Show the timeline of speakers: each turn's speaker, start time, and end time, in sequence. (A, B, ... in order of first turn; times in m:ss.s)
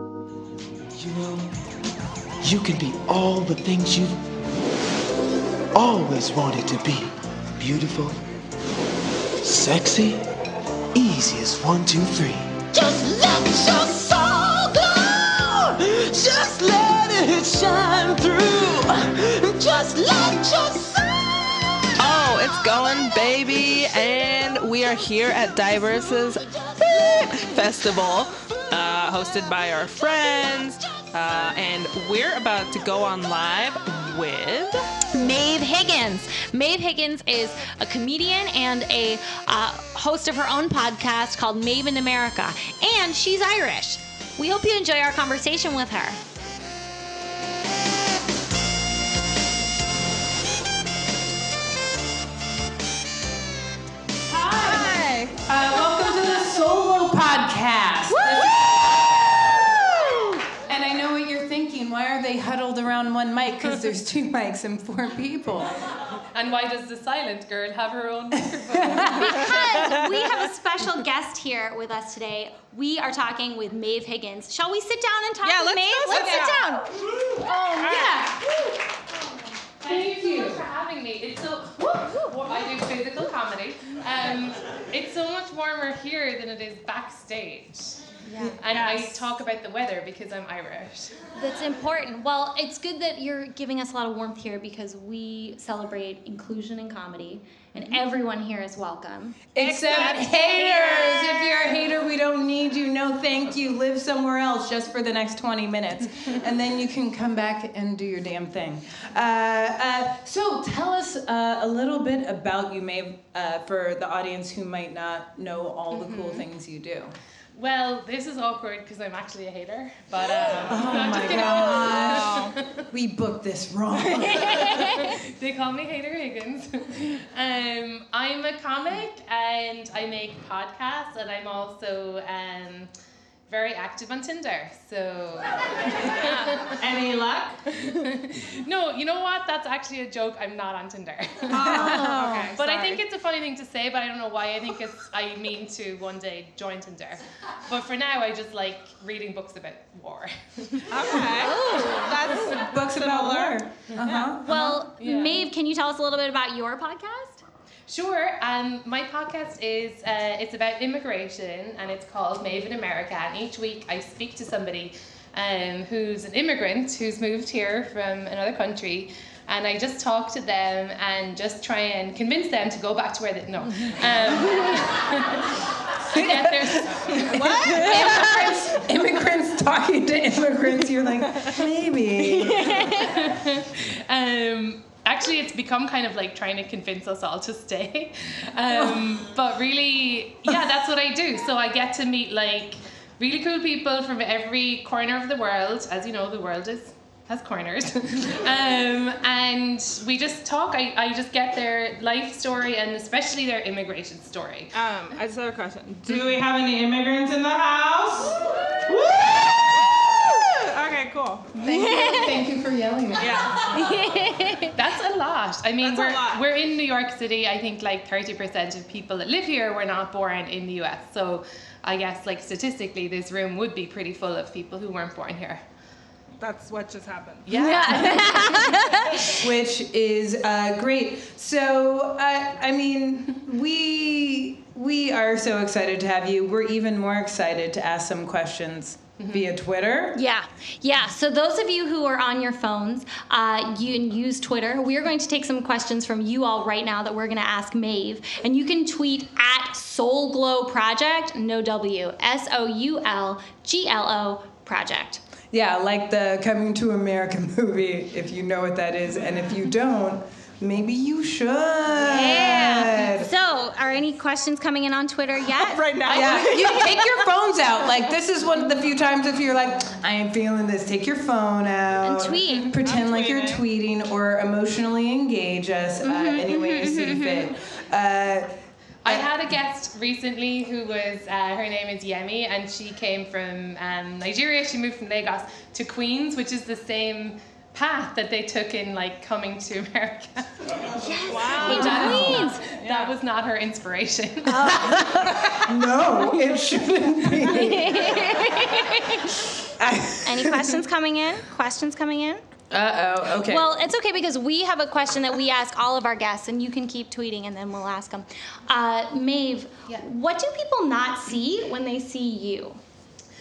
0:01.0-0:01.5 A
0:02.4-0:04.1 A
0:05.8-0:07.0 A
0:07.6-0:08.2 A
0:09.5-0:10.2 A
0:11.0-0:12.4 A
0:12.8-0:15.0 B
0:16.2-0:18.2 A
0:19.6-0:20.6 B
0:22.0-0:34.9 C
0:35.1-0:46.2 D
0:54.3-0:58.8 E
0:54.6-0:55.4 C
1:00.7-1:05.7 E
1:06.3-1:10.0 F
1:08.7-1:09.3 E
1:09.1-1:18.6 D
1:15.4-1:16.8 C
1:17.8-1:18.3 C
1:19.8-1:28.0 F
1:19.8-1:20.6 E
1:28.2-1:29.2 D
1:28.6-1:31.2 F
1:31.4-1:41.8 D
1:39.6-1:57.2 E
1:55.9-1:56.5 F
1:57.6-2:02.6 F
2:00.7-2:04.7 E
2:01.5-2:02.5 C
2:04.2-2:12.9 F
2:13.5-2:16.7 F
2:16.8-2:17.7 C
2:17.8-2:31.3 F
2:21.5-2:23.0 C
2:21.6-2:22.1 E
2:21.7-2:22.5 D
2:30.9-2:34.3 C
2:31.4-2:32.2 D
2:32.5-2:34.5 E
2:33.9-2:35.5 F
2:34.4-2:37.4 D
2:37.9-2:58.5 F
2:56.1-2:56.9 E
2:57.4-2:58.0 C
2:57.5-3:02.9 E
3:02.6-3:03.0 D
3:02.8-3:24.7 F
3:08.7-3:09.1 E
3:24.7-3:31.7 C
3:31.6-3:33.7 E
3:31.6-3:32.4 D
3:33.2-3:33.7 C
3:33.6-3:34.8 D
3:34.7-3:45.6 F
3:35.8-3:36.4 C
3:46.4-3:47.5 C
3:47.5-3:49.3 F
3:47.5-3:49.1 D
3:48.8-3:49.3 C
3:49.3-4:00.2 E
3:59.2-3:59.5 F
4:00.1-4:15.2 D
4:15.5-4:23.3 E
4:22.0-4:26.4 D
4:25.6-4:27.1 C
4:26.1-4:38.5 E
4:32.0-4:32.7 D
4:32.8-4:33.6 C
4:36.0-4:37.4 D
4:39.0-4:50.5 F
4:51.0-4:52.6 D
4:51.3-4:53.1 C
4:51.5-4:55.0 F
4:51.7-4:52.5 E
4:54.5-4:58.2 E
4:57.5-4:59.4 D
4:59.8-5:00.8 E
5:00.2-5:02.4 D
5:02.7-5:03.7 E
5:03.5-5:12.8 D